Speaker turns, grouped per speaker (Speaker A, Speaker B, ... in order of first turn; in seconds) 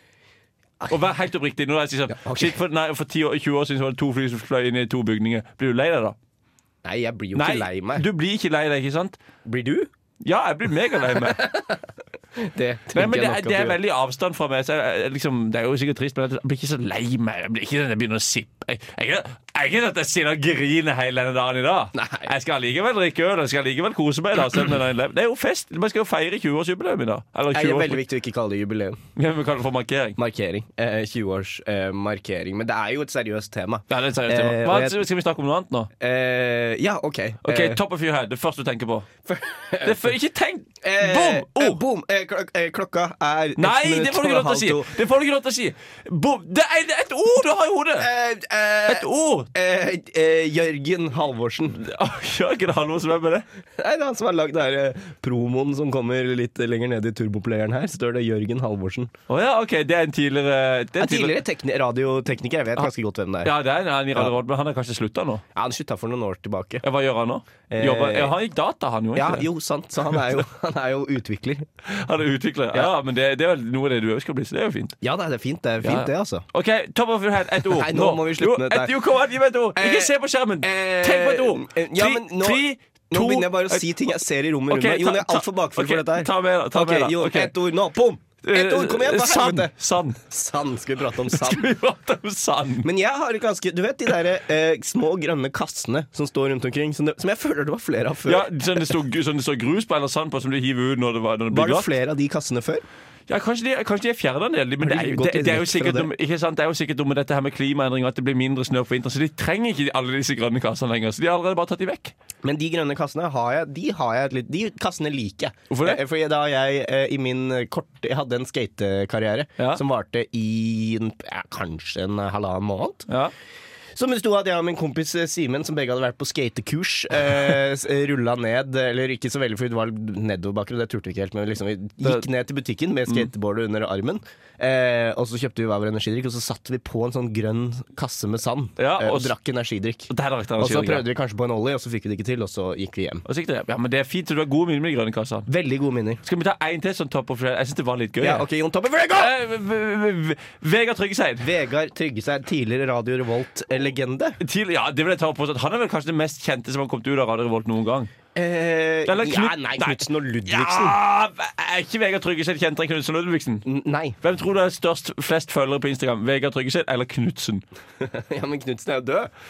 Speaker A: 0.9-6.2, 7.3-9.2, 10.2-11.5, 12.9-28.0, 29.2-30.2, 33.9-35.9, 37.4-39.1, 39.8-41.8, 43.6-48.1, 48.9-49.5, 51.7-53.5, 59.3-61.4, 63.4-65.4, 66.8-69.5, 71.8-75.0, 75.8-83.9, 84.7-87.5, 88.4-90.2, 91.3-92.9, 98.3-101.9, 103.3-112.1, 115.7-116.0, 138.8-139.3, 140.1-141.1, 143.3-145.5, 146.2-148.4, 149.2-151.5, 154.4-158.1, 159.1-163.7, 164.2-167.6
Speaker B: 2.1-2.6, 6.8-8.1, 9.4-9.9, 11.1-11.8, 12.4-13.8, 21.9-22.3, 27.5-29.0, 30.2-35.0, 36.0-37.8, 39.2-40.2, 40.8-45.0, 48.0-51.8, 53.8-59.1, 61.0-63.5, 65.5-66.8, 67.7-68.3, 69.2-71.7, 75.0-76.5, 77.6-79.0, 79.8-91.7, 92.8-99.0, 101.5-102.8, 104.8-106.1, 112.4-123.1, 124.0-143.2, 145.5-146.2, 148.2-149.3, 151.4-154.4, 158.3-161.0, 163.7-164.2, 168.0-169.3